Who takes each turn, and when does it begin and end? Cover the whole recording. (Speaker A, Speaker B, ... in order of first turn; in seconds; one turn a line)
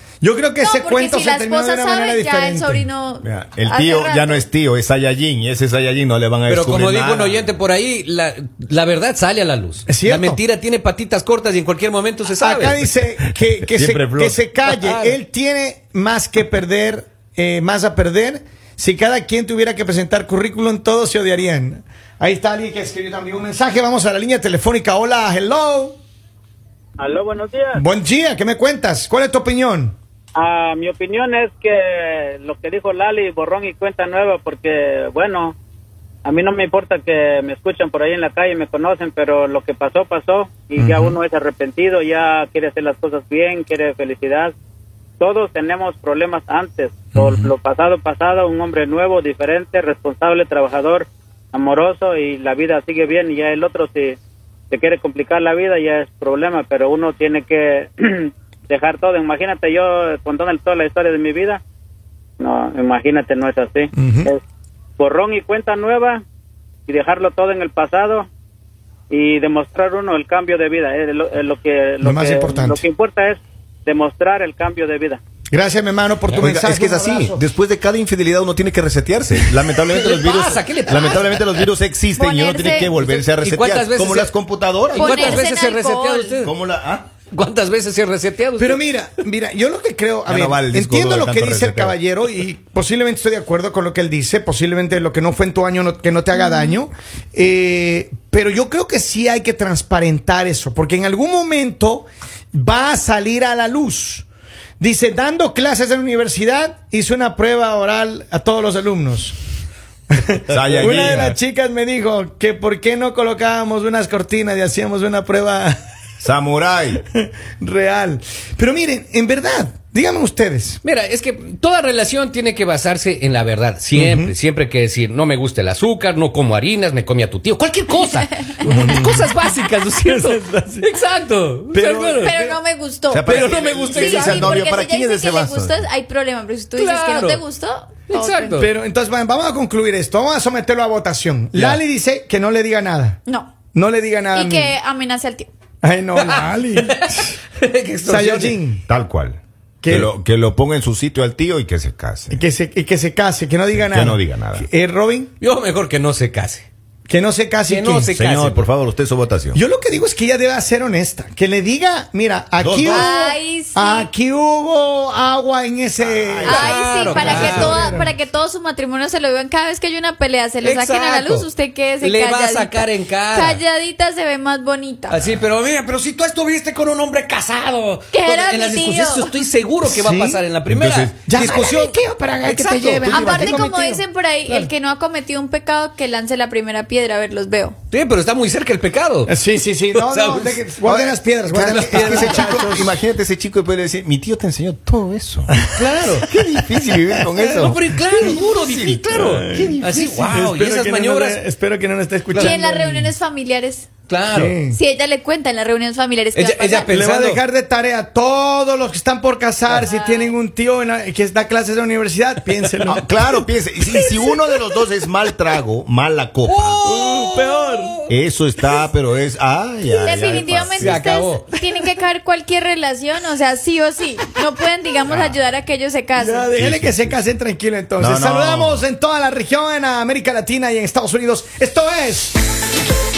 Speaker A: 0.2-2.9
Speaker B: 0.6-4.5
Speaker C: 3.2-7.5
Speaker D: 6.5-12.9
Speaker A: 9.9-10.4
Speaker A: 12.3-26.0
Speaker C: 13.6-14.5
Speaker D: 14.6-15.2
Speaker E: 27.0-27.8
Speaker A: 27.8-30.0
Speaker E: 30.4-35.6
Speaker E: 36.2-44.5
Speaker A: 40.8-41.2
Speaker E: 45.2-54.2
Speaker A: 47.1-47.5
Speaker E: 54.7-61.6
Speaker E: 62.4-64.4
Speaker A: 64.0-64.3
Speaker E: 65.0-66.2
Speaker E: 66.9-68.3
Speaker E: 69.1-75.2
Speaker A: 72.0-72.8
Speaker A: 75.5-77.4
Speaker C: 76.4-85.5
Speaker D: 79.7-81.7
Speaker B: 82.2-83.0
Speaker D: 83.0-84.3
Speaker D: 84.9-86.5
Speaker B: 85.0-86.4
Speaker C: 86.4-87.1
Speaker D: 87.3-88.8
Speaker A: 88.6-104.2
Speaker C: 90.2-92.0
Speaker A: 104.8-109.4
Speaker A: 110.1-115.8
Speaker C: 110.5-111.4
Speaker C: 116.2-117.0
Speaker A: 117.1-120.8
Speaker D: 120.8-132.3
Speaker A: 123.9-124.3
Speaker A: 128.6-129.4
Speaker A: 130.0-130.9
Speaker A: 131.7-132.6
Speaker B: 132.1-138.6
Speaker C: 133.1-135.9
Speaker D: 133.2-134.6
Speaker A: 134.2-134.5
Speaker D: 136.8-137.4
Speaker D: 138.1-138.7
Speaker A: 138.5-143.2
Speaker D: 141.6-141.8
Speaker B: 143.2-143.5
Speaker A: 143.7-144.7
Speaker B: 144.3-145.5
Speaker A: 145.8-147.4
Speaker D: 146.2-148.6
Speaker A: 148.0-148.8
Speaker C: 148.9-152.4
Speaker A: 149.8-150.1
Speaker A: 152.3-155.3
Speaker C: 153.7-154.7
Speaker D: 155.4-156.7
Speaker A: 157.1-158.1
Speaker D: 157.7-158.7
Speaker C: 158.1-159.6
Speaker A: 159.5-168.1
Speaker C: 162.6-163.1
Speaker B: 162.9-164.1
Speaker C: 166.0-167.7
Speaker B: 166.4-175.2
Speaker D: 166.5-167.9
Speaker D: 170.6-171.5
Speaker D: 172.0-173.6
Speaker D: 175.1-183.6
Speaker B: 178.1-179.4
Speaker A: 179.8-180.4
Speaker C: 180.7-181.7
Speaker A: 181.2-184.7
Speaker B: 183.1-187.8
Speaker D: 187.9-189.3
Speaker A: 189.3-193.0
Speaker D: 189.9-190.7
Speaker C: 190.8-195.6
Speaker D: 191.5-192.9
Speaker A: 195.5-196.2
Speaker D: 195.8-196.3
Speaker C: 196.2-199.9
Speaker D: 197.3-201.4
Speaker A: 198.1-198.4
Speaker A: 199.1-203.1
Speaker D: 202.3-202.6
Speaker B: 202.4-203.9
Speaker D: 204.1-204.6
Speaker A: 204.3-204.8
Speaker B: 204.7-206.9
Speaker D: 206.3-207.4
Speaker A: 206.9-213.1
Speaker B: 209.8-210.3
Speaker C: 212.9-217.0
Speaker D: 216.4-218.1
Speaker A: 216.8-218.0
Speaker C: 218.1-221.0
Speaker B: 220.0-226.5
Speaker D: 220.6-221.5
Speaker C: 225.1-225.4
Speaker A: 226.1-232.4
Speaker C: 226.6-227.2
Speaker C: 228.0-228.8